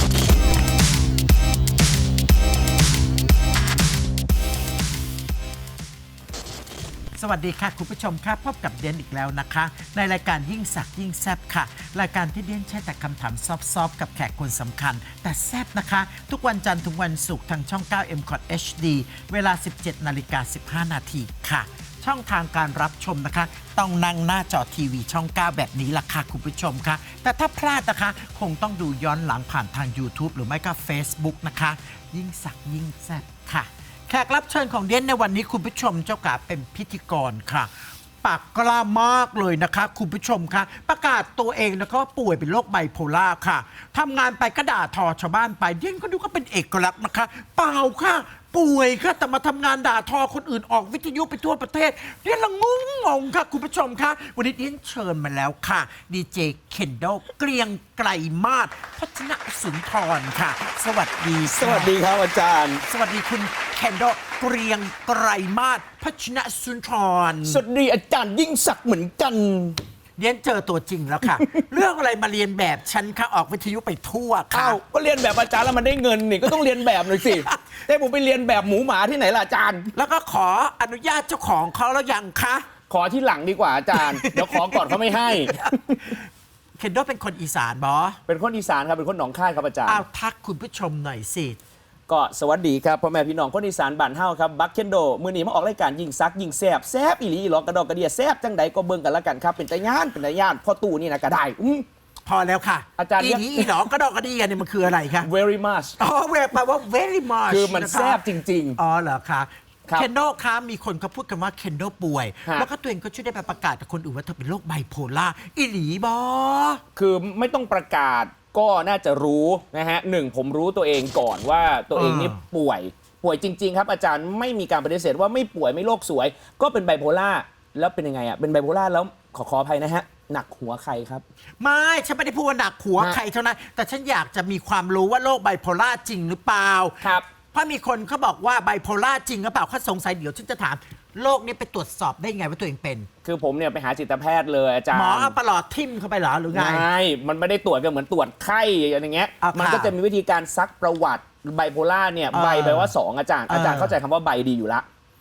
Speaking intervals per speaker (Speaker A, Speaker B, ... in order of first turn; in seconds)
Speaker A: 7.2-37.7, 38.2-61.9, 62.8-67.6, 70.2-74.8, 76.5-77.8, 79.9-82.6, 83.9-88.2, 89.8-91.6, 102.2-105.3, 106.0-116.8, 121.9-122.4, 131.6-143.1, 144.9-146.8, 149.4-149.9, 152.3-152.9, 153.5-153.9
Speaker B: 61.4-62.8, 67.5-69.8, 71.2-71.6, 74.5-79.9, 82.9-85.8, 88.3-90.0, 92.1-101.8, 103.0-103.9, 105.1-106.0, 107.5-108.8, 117.0-131.2, 143.2-145.4, 146.5-154.8